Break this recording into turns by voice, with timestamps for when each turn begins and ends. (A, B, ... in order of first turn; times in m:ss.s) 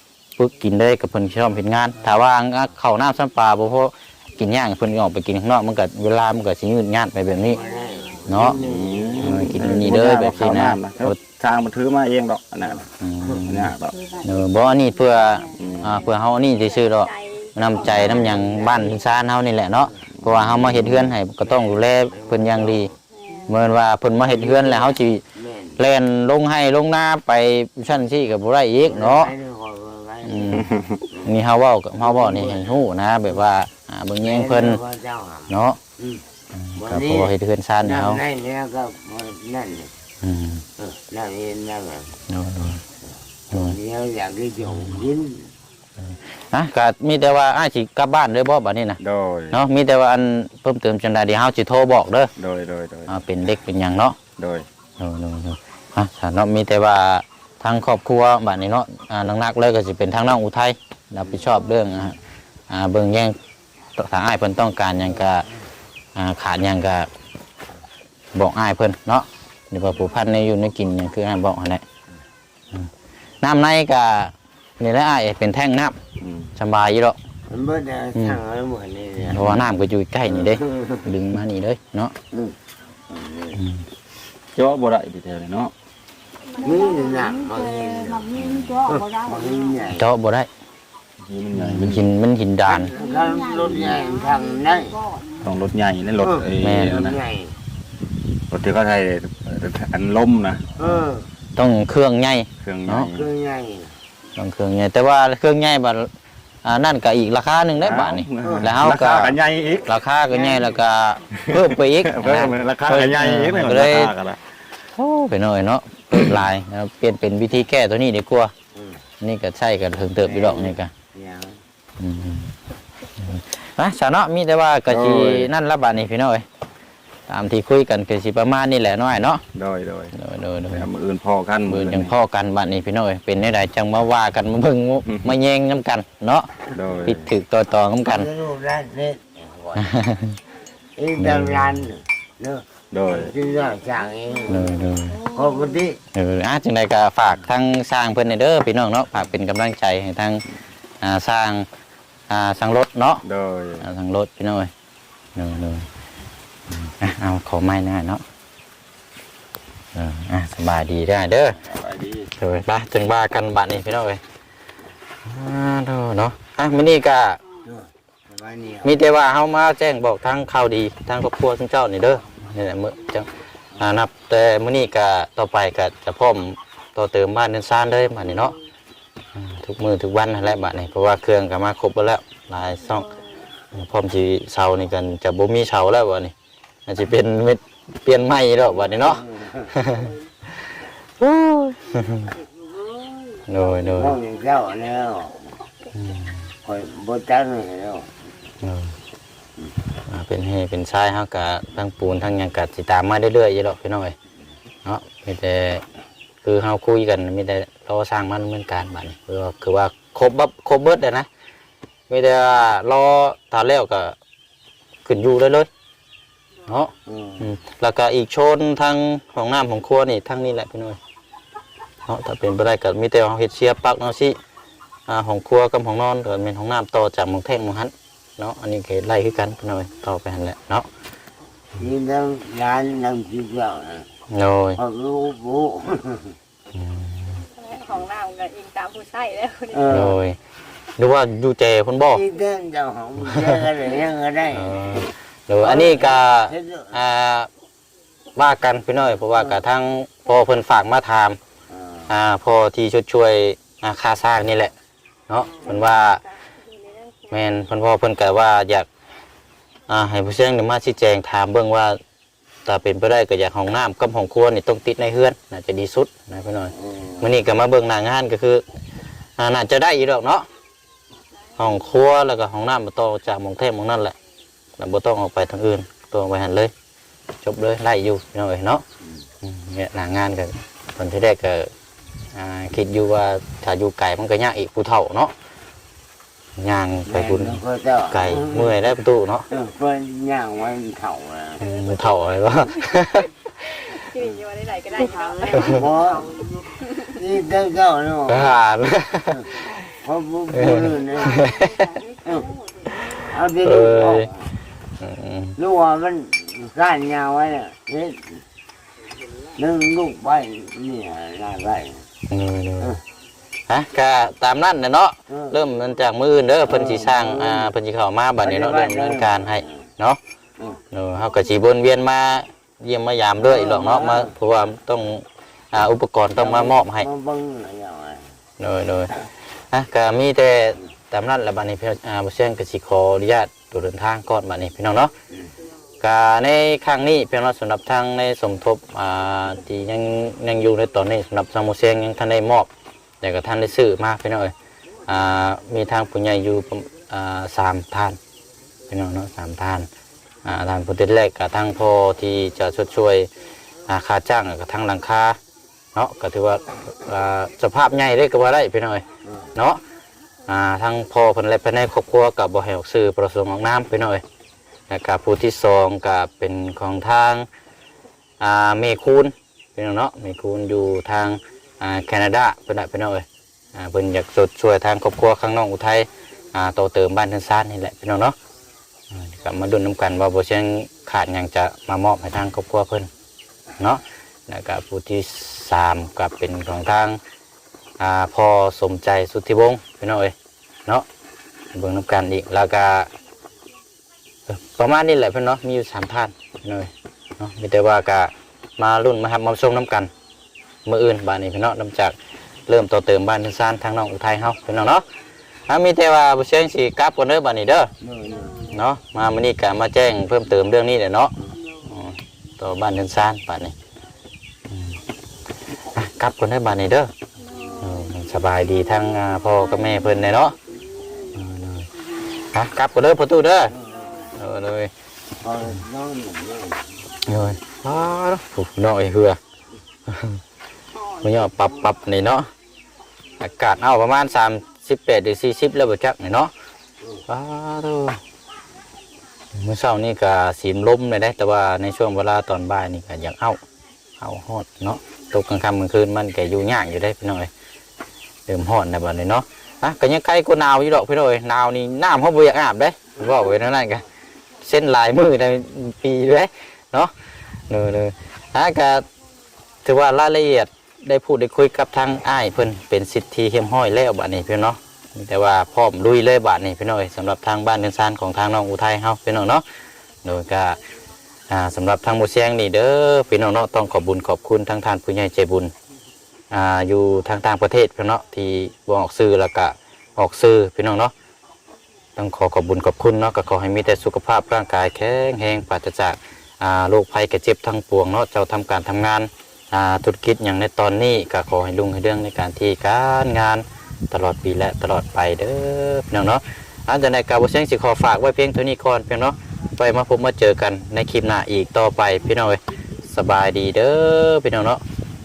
0:00.4-0:07.6 A
0:07.5-0:09.7 B
0:08.2-0:08.6 A
0:08.5-0:14.0 C
0:09.2-0:11.2 A
0:13.0-0:22.9 A
0:15.6-0:16.0 C
0:17.9-0:18.6 B
0:20.2-0:21.2 C
0:21.5-0:22.9 B
0:23.5-0:25.2 A
0:24.2-0:25.8 B
0:25.8-0:29.3 A
0:28.9-0:31.3 B
0:30.2-0:30.7 A
0:30.7-0:31.0 C
0:31.2-0:34.8 A
0:32.0-0:32.8 B
0:34.2-0:36.2 B
0:35.5-0:35.8 A
0:36.6-0:38.2 A
0:36.8-0:39.9 B
0:40.2-0:40.6 A
0:40.8-0:42.1 B
0:42.3-0:42.8 A
0:43.5-0:45.5 B
0:44.7-0:45.0 A
0:46.5-0:49.0 A
0:49.0-0:49.6 C
0:49.5-0:52.3 A
0:52.4-0:53.1 C
0:53.1-0:54.2 A
0:54.4-0:54.6 C
0:55.0-1:02.2 A
1:02.7-1:03.4 A
1:04.0-1:05.5 A
1:06.1-1:07.1 A
1:08.3-1:11.8 A
1:13.4-1:16.0 A
1:16.2-1:16.5 C
1:16.6-1:17.2 A
1:17.5-1:19.6 B
1:19.2-1:22.1 A
1:20.3-1:21.0 B
1:23.1-1:23.6 B
1:23.6-1:23.8 A
1:24.5-1:25.7 C
1:26.6-1:30.0 B
1:28.3-1:28.9 C
1:29.9-1:30.5 A
1:31.2-1:32.0 C
1:31.5-1:32.9 A
1:32.7-1:35.1 B
1:35.4-1:37.2 C
1:36.2-1:37.5 B
1:36.6-1:37.0 A
1:38.5-1:40.6 C
1:40.8-1:41.3 B
1:41.6-1:43.1 A
1:42.6-1:43.3 C
1:43.1-1:43.9 B
1:44.4-1:46.1 A
1:46.6-1:49.3 A
1:47.8-1:49.9 C
1:48.4-1:48.7 B
1:49.9-1:54.1 A
1:50.3-1:50.7 B
1:51.3-1:54.4 C
1:54.9-1:58.5 A
1:56.2-1:56.4 C
1:58.7-1:59.0 B
1:59.2-2:00.9 A
2:00.2-2:01.6 B
2:02.0-2:02.5 A
2:03.2-2:06.4 A
2:04.9-2:05.5 C
2:07.3-2:09.4 A
2:09.5-2:10.1 C
2:10.1-2:10.9 A
2:10.7-2:12.1 C
2:11.7-2:18.3 A
2:16.7-2:17.2 C
2:18.0-2:19.8 B
2:19.8-2:20.4 A
2:21.0-2:26.0 B
2:21.2-2:21.9 A
2:22.9-2:23.3 C
2:24.5-2:25.2 A
2:26.1-2:30.4 A
2:31.0-2:31.7 A
2:32.3-2:33.2 A
2:33.2-2:33.8 C
2:33.8-2:34.7 A
2:35.3-2:35.8 A
2:36.7-2:38.2 A
2:39.9-2:41.6 A
2:41.6-2:42.3 C
2:42.4-2:44.2 A
2:45.2-2:47.4 A
2:47.7-2:48.9 B
2:48.8-2:58.5 A
2:59.3-3:03.2 A
3:03.7-3:06.3 A
3:06.9-3:10.1 A
3:08.7-3:09.7 B
3:11.2-3:12.3 A
3:13.5-3:14.2 A
3:13.8-3:15.5 B
3:16.0-3:16.4 A
3:16.6-3:18.1 B
3:18.6-3:18.9 A
3:20.1-3:24.1 A
3:24.8-3:25.8 A
3:26.4-3:31.3 A
3:32.1-3:34.2 A
3:35.0-3:35.7 A
3:36.7-3:41.0 A
3:37.1-3:37.4 B
3:42.1-3:44.4 A
3:45.1-3:50.9 A
3:51.8-3:54.1 B
3:54.3-3:54.8 A
3:54.8-3:56.3 B
3:56.7-3:57.4 A
3:57.6-3:59.8 D
3:59.7-4:00.2 B
3:59.9-4:00.4 A
4:01.0-4:02.2 A
4:02.1-4:04.8 B
4:03.2-4:03.6 A
4:04.5-4:07.5 A
4:05.6-4:06.9 B
4:08.4-4:11.4 A
4:11.7-4:12.1 B
4:12.1-4:14.7 A
4:15.3-4:16.2 A
4:16.7-4:17.3 D
4:17.3-4:18.9 A
4:19.9-4:22.0 A
4:22.6-4:28.6 A
4:26.9-4:27.2 B
4:29.4-4:30.5 A
4:31.6-4:34.1 A
4:34.8-4:36.7 A
4:37.4-4:38.8 A
4:39.4-4:41.7 A
4:42.3-4:45.3 A
4:46.6-4:49.5 A
4:47.0-4:49.0 B
4:49.5-4:51.7 B
4:51.6-4:54.1 A
4:51.6-4:52.6 D
4:54.1-4:55.7 D
4:55.2-4:58.5 B
4:58.3-4:59.6 A
4:59.3-5:01.5 B
5:00.5-5:02.0 A
5:02.2-5:02.5 B
5:03.1-5:04.5 B
5:03.6-5:04.3 A
5:05.0-5:05.6 A
5:05.6-5:08.4 B
5:09.6-5:12.0 B
5:12.3-5:13.0 A
5:13.7-5:20.2 A
5:15.3-5:15.6 B
5:16.7-5:17.7 B
5:18.4-5:19.6 B
5:20.9-5:27.1 A
5:23.4-5:24.3 B
5:26.4-5:28.3 B
5:28.6-5:29.1 A
5:29.7-5:35.1 A
5:36.0-5:42.7 A
5:43.2-5:44.5 A
5:45.1-5:48.2 A
5:48.9-5:49.9 A
5:50.4-5:53.3 A
5:53.9-5:55.4 A
5:55.9-5:59.8 A
6:00.5-6:04.2 A
6:04.9-6:07.5 A
6:08.4-6:18.3 A
6:19.1-6:23.1 A
6:23.8-6:27.2 A
6:28.0-6:30.3 A
6:31.7-6:33.1 A
6:34.5-6:40.1 A
6:40.8-6:42.1 A
6:42.7-6:45.0 A
6:45.7-6:47.9 A
6:48.0-6:48.7 B
6:48.7-6:51.3 A
6:51.8-6:53.7 A
6:55.9-6:57.1 A
6:57.8-7:00.5 A
7:01.3-7:01.9 A
7:02.5-7:03.7 A
7:03.8-7:04.1 B
7:04.4-7:04.9 A
7:05.4-7:06.8 B
7:07.2-7:09.4 A
7:10.1-7:10.4 A
7:11.2-7:12.5 A
7:13.4-7:16.5 A
7:17.3-7:18.2 A
7:19.5-7:23.6 A
7:24.2-7:27.5 A
7:28.5-7:34.0 A
7:34.6-7:37.1 A
7:37.7-7:39.0 A
7:39.8-7:49.6 A
7:50.2-7:50.8 A
7:51.5-7:55.7 A
7:56.5-8:01.1 A
8:02.2-8:24.8 A